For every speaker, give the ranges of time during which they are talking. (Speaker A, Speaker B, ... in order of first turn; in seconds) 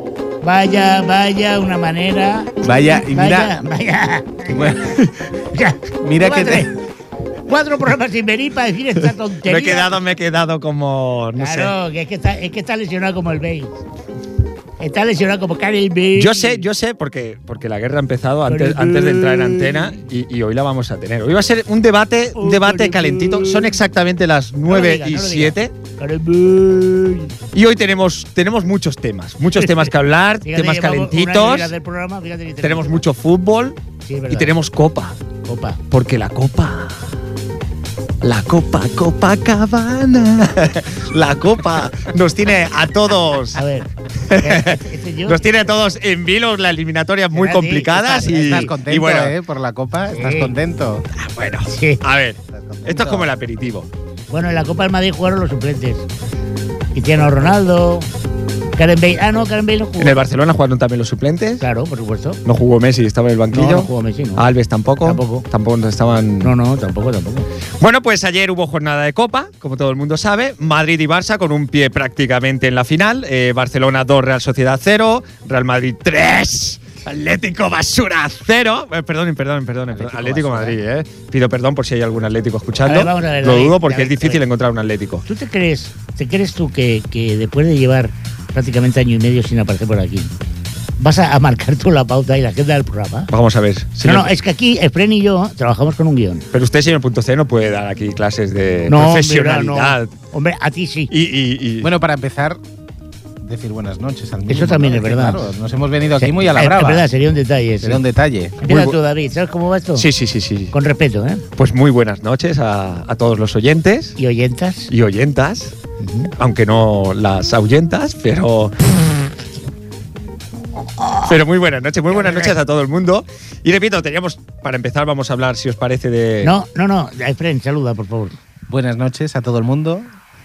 Speaker A: 0.4-4.8, 5.5-6.7, 7.5-9.9, 11.3-13.7, 14.8-16.6, 18.5-20.0, 22.4-23.7, 24.7-27.3, 29.6-29.9, 30.4-33.0, 34.0-34.5, 35.4-35.8, 43.5-45.5, 47.3-48.7, 50.1-50.5, 51.7-52.0, 54.3-56.1, 56.9-58.1, 58.8-60.2, 61.6-62.4, 63.5-64.4, 65.0-65.5, 66.4-67.5, 82.8-84.4, 85.2-90.3, 91.0-93.3, 94.0-96.5, 98.9-101.1, 104.5-105.5, 106.2-108.0, 108.6-110.1, 110.7-111.4, 114.2-114.9, 116.0-116.3, 121.0-121.3, 122.2-122.5, 126.4-128.3
Speaker B: 2.6-3.5, 4.5-5.0, 6.0-6.7, 48.3-51.1, 52.5-53.3, 79.9-80.8, 101.8-102.6, 103.4-107.1, 107.8-108.7, 128.7-130.1
Speaker C: 9.4-11.7, 16.1-25.7, 27.5-31.7, 32.6-33.8, 34.3-35.1, 35.9-37.0, 38.2-43.6, 44.2-49.4, 51.1-53.9, 60.0-61.6, 62.4-66.5, 67.8-85.2, 93.3-94.3, 96.5-100.1, 101.1-101.9, 108.7-108.9, 110.0-110.7, 111.6-114.2, 114.9-115.7, 116.4-118.7, 121.2-126.5